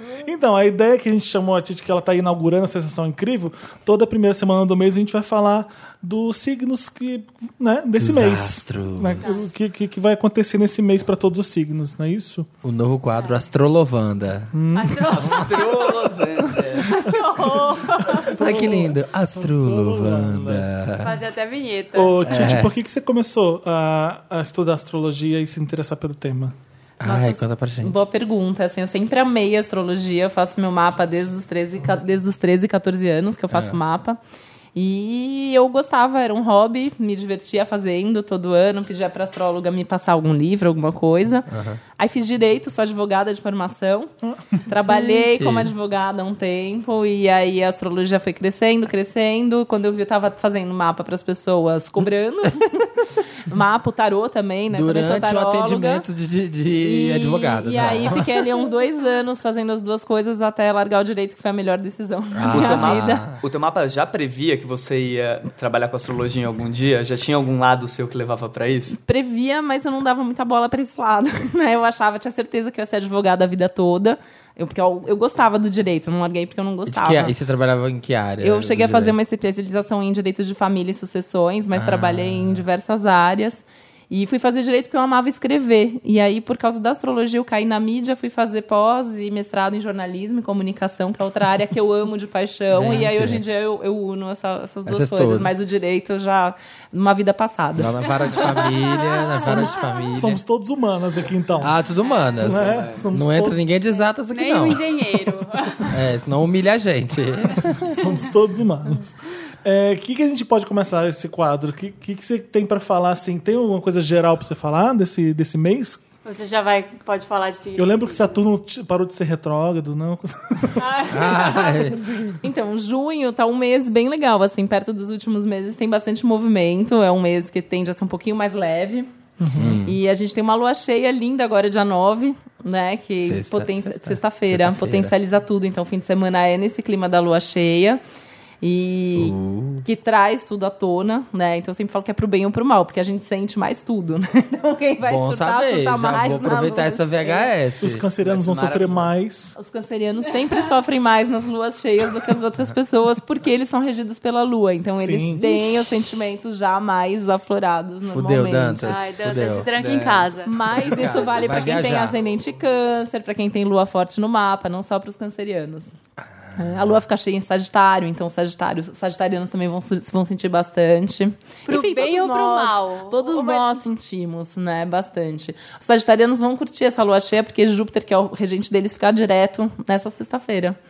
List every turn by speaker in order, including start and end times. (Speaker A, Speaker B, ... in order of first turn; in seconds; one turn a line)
Speaker A: 0.2-12.5
Speaker B: 8.0-9.3
Speaker C: 9.2-9.5
Speaker B: 12.6-14.5
Speaker A: 14.5-15.2
Speaker C: 14.7-16.1
Speaker D: 15.1-17.0
Speaker C: 16.7-18.3
Speaker A: 16.8-20.7
Speaker B: 18.2-21.2
Speaker C: 21.0-22.3
Speaker A: 21.9-26.5
Speaker B: 22.2-22.7
Speaker B: 27.0-27.9
Speaker E: 27.0-34.2
Speaker B: 33.5-33.8
Speaker E: 34.7-44.1
Speaker B: 41.5-41.8
Speaker A: 44.2-44.7
Speaker E: 44.6-56.0
Speaker B: 44.9-45.7
Speaker B: 54.7-58.3
Speaker E: 56.8-63.2
Speaker B: 62.4-63.4
Speaker D: 62.5-69.0
Speaker E: 69.0-77.3
Speaker B: 76.9-79.2
Speaker E: 78.4-98.7
Speaker B: 81.7-82.6
Speaker B: 92.7-93.4
Speaker B: 94.9-95.5
Speaker B: 97.8-100.4
Speaker A: 99.4-101.8
Speaker B: 101.6-105.0
Speaker C: 102.0-102.4
Speaker A: 102.4-103.7
Speaker D: 102.4-103.0
Speaker C: 104.3-105.9
Speaker B: 105.9-108.0
Speaker A: 107.8-109.1
Speaker A: 109.6-116.0
Speaker C: 116.2-118.3
Speaker A: 117.8-120.9
Speaker C: 120.8-121.9
Speaker B: 121.1-122.4
Speaker E: 122.4-129.1
Speaker A: 129.4-129.8
Speaker B: 129.6-130.0
Speaker E: 129.8-138.0
Speaker B: 133.2-135.1
Speaker E: 138.6-147.5
Speaker B: 139.2-139.8
Speaker B: 145.0-148.0
Speaker A: 147.8-149.6
Speaker D: 148.2-149.1
Speaker E: 149.6-159.0
Speaker A: 155.0-155.8
Speaker B: 158.1-159.7
Speaker C: 158.8-160.5
Speaker D: 159.7-160.3
Speaker E: 160.4-165.9
Speaker B: 160.8-162.1
Speaker E: 166.6-180.8
Speaker C: 171.7-173.8